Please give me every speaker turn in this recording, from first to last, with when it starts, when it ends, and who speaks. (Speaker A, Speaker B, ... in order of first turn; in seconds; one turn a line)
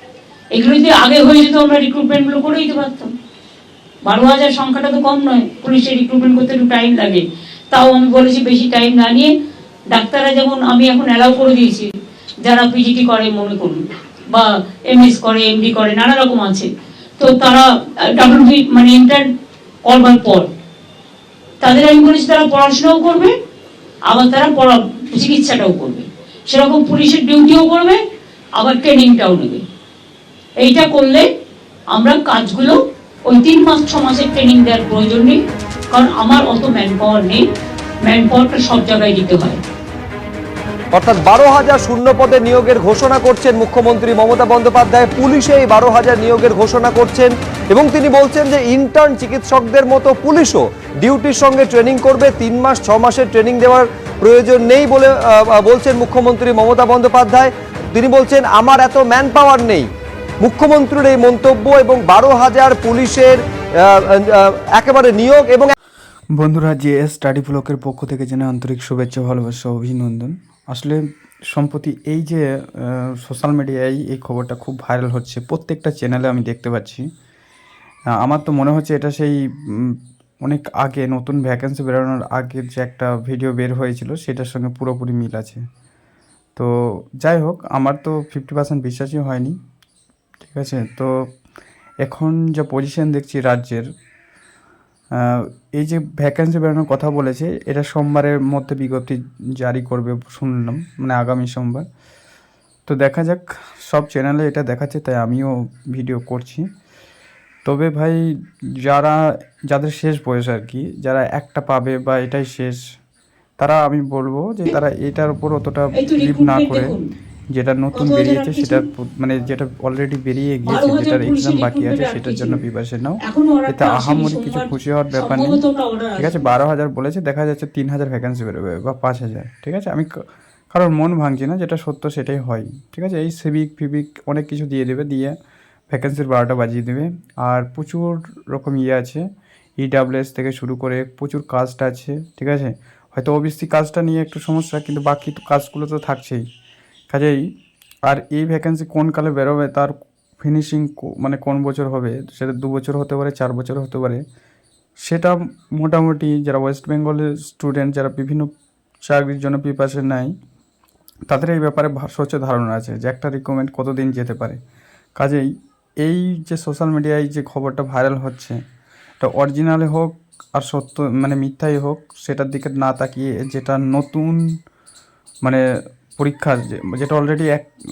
Speaker A: 0.5-3.1
Speaker A: 4.0-9.3
Speaker A: 9.9-11.9
Speaker A: 12.4-19.3
Speaker A: 19.8-20.5
Speaker A: 21.6-23.3
Speaker A: 24.1-28.0
Speaker A: 28.6-29.6
Speaker A: 30.6-31.2
Speaker A: 31.9-32.8
Speaker A: 33.3-35.4
Speaker A: 35.9-37.4
Speaker A: 38.0-39.6
Speaker B: 40.9-59.9
Speaker B: 60.4-65.7
Speaker C: 66.3-77.0
Speaker C: 78.2-85.6
Speaker C: 86.5-89.5
Speaker C: 90.4-91.3
Speaker C: 92.0-93.8
Speaker C: 95.1-101.8
Speaker C: 102.9-106.6
Speaker C: 107.6-108.3
Speaker C: 108.8-112.8
Speaker C: 113.6-117.0
Speaker A: 115.9-117.0
Speaker C: 117.5-125.6
Speaker A: 117.9-118.8
Speaker A: 120.7-122.6
Speaker A: 123.2-126.5
Speaker C: 126.2-130.1
Speaker C: 130.7-135.3
Speaker C: 135.9-139.2
Speaker C: 139.8-146.4
Speaker C: 147.1-147.4
Speaker C: 148.0-154.2
Speaker C: 155.0-158.5
Speaker C: 159.1-160.3
Speaker C: 161.3-164.6
Speaker C: 165.2-165.5
Speaker C: 166.0-168.6
Speaker C: 169.2-174.4
Speaker C: 176.2-177.7